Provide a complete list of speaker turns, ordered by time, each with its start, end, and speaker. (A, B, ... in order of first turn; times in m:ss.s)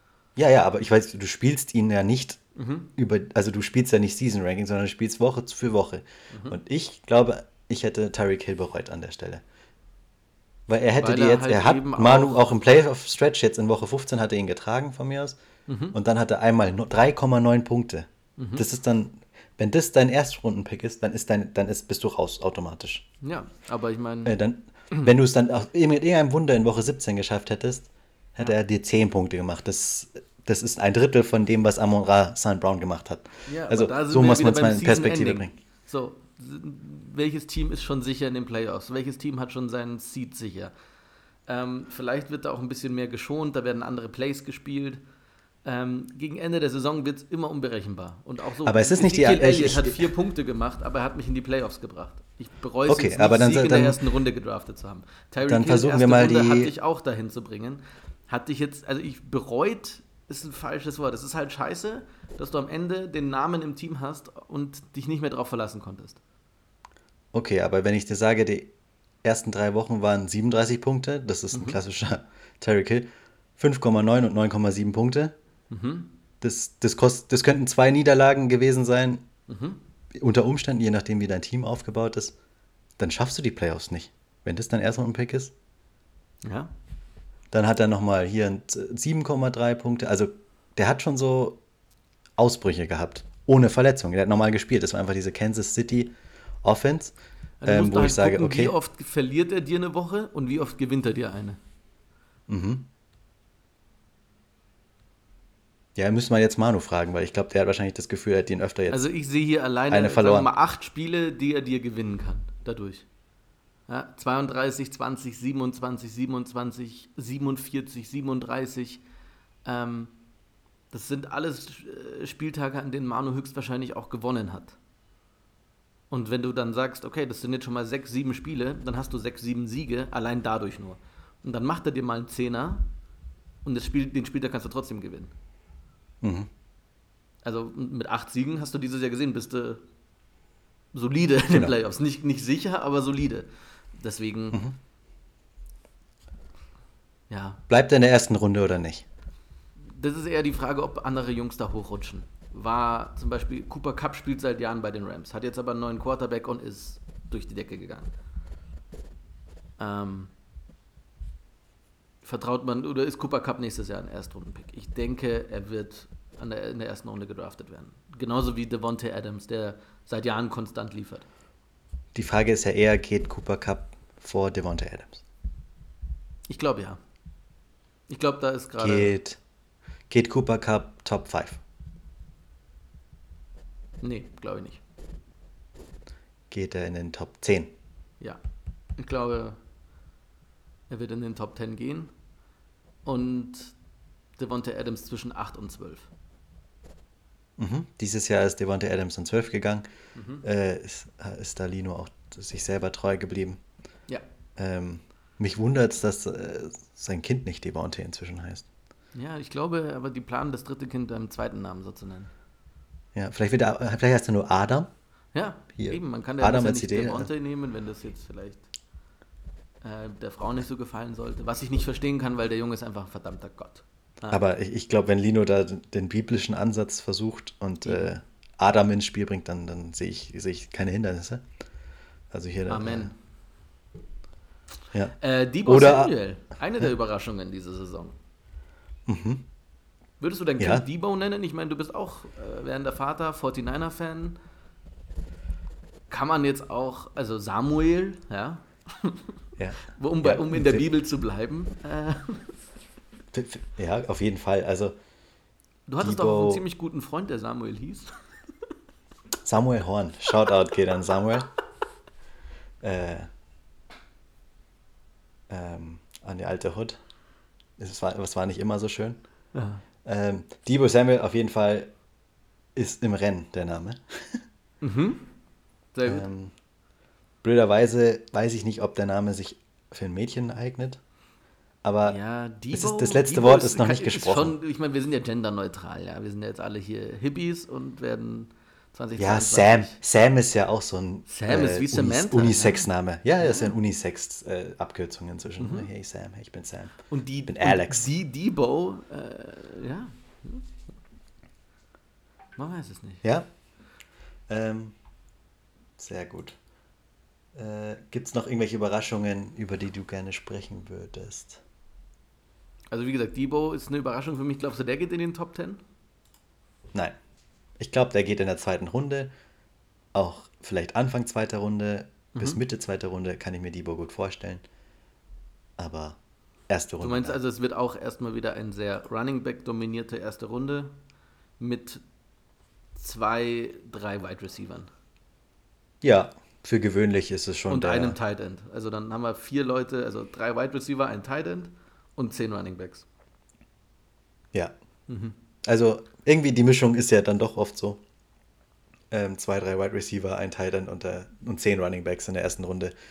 0:00.4-0:02.4 A
0:02.6-0:02.9 B
0:03.0-0:09.4 A
0:06.3-0:06.6 B
0:10.7-0:15.4 A
0:11.0-0:12.5 B
0:15.7-0:16.0 B
0:15.9-0:23.1 A
0:18.4-0:18.6 B
0:23.2-0:24.4 B
0:24.2-0:35.5 A
0:33.5-0:40.7 B
0:41.5-0:45.0 B
0:45.6-1:06.2 B
0:48.6-0:50.1 A
0:52.9-0:54.0 A
0:55.4-0:56.7 A
1:07.3-1:15.3 A
1:11.5-1:11.8 B
1:15.7-1:16.1 B
1:16.4-1:19.3 A
1:19.5-1:19.8 B
1:20.1-1:22.4 A
1:23.0-1:25.5 A
1:26.4-1:26.7 B
1:27.5-1:31.6 A
1:32.4-1:38.7 A
1:37.6-1:41.6 B
1:42.5-1:42.9 A
1:46.0-1:49.1 A
1:48.9-1:53.1 B
1:49.9-1:50.5 A
1:53.9-1:59.0 B
1:59.6-2:00.1 B
2:00.9-2:04.8 B
2:06.1-2:12.9 B
2:13.6-2:15.3 B
2:16.2-2:16.5 A
2:17.4-2:19.8 B
2:20.9-2:24.6 B
2:21.5-2:21.8 A
2:27.3-2:27.6 B
2:27.7-2:29.0 A
2:29.9-2:38.1 B
2:39.8-2:40.3 B
2:42.2-2:51.2 B
2:52.1-2:55.2 A
2:56.5-2:57.0 B
2:58.1-2:59.2 B
2:58.8-2:59.4 A
3:00.1-3:01.6 A
3:04.0-3:04.8 B
3:06.5-3:07.7 A
3:09.0-3:09.6 B
3:10.9-3:12.1 B
3:13.0-3:13.7 B
3:14.4-3:16.1 B
3:17.6-3:19.9 A
3:20.2-3:20.4 B
3:20.4-3:23.6 A
3:24.6-3:28.6 A
3:29.1-3:32.3 B
3:33.1-3:34.9 A
3:35.3-3:38.7 B
3:35.8-3:37.3 A
3:39.8-3:44.4 B
3:44.3-3:51.4 A
3:47.8-3:48.1 B
3:52.3-3:53.1 A
3:52.7-3:53.1 B
3:54.9-3:56.1 A
3:55.2-3:58.2 B
3:59.1-3:59.4 A
4:00.2-4:04.4 B
4:00.6-4:00.8 A
4:06.1-4:09.3 B
4:09.6-4:10.9 A
4:09.9-4:12.6 B
4:13.3-4:14.9 A
4:15.9-4:18.1 B
4:16.0-4:16.6 A
4:19.4-4:21.5 A
4:22.8-4:23.3 A
4:25.5-4:27.0 A
4:27.8-4:29.2 A
4:29.5-4:29.8 B
4:30.0-4:31.9 A
4:32.7-4:34.4 A
4:34.8-4:35.3 B
4:35.9-4:36.3 B
4:36.0-4:36.5 A
4:37.4-4:41.0 A
4:41.8-4:42.2 A
4:42.0-4:50.0 B
4:42.7-4:44.6 A
4:49.2-4:58.1 A
4:51.3-4:52.9 B
4:53.4-4:53.7 B
4:55.6-4:55.9 B
4:57.1-5:00.7 B
5:02.6-5:03.2 B
5:04.5-5:05.0 A
5:06.0-5:06.6 A
5:07.5-5:11.6 A
5:12.9-5:15.8 B
5:17.8-5:19.3 A
5:20.1-5:24.6 A
5:22.3-5:22.6 B
5:25.8-5:27.4 A
5:27.0-5:30.9 B
5:31.6-5:32.0 B
5:33.0-5:34.9 B
5:36.0-5:38.2 A
5:37.7-5:43.0 B
5:45.1-5:45.3 B
5:45.6-5:48.0 A
5:49.1-5:52.9 A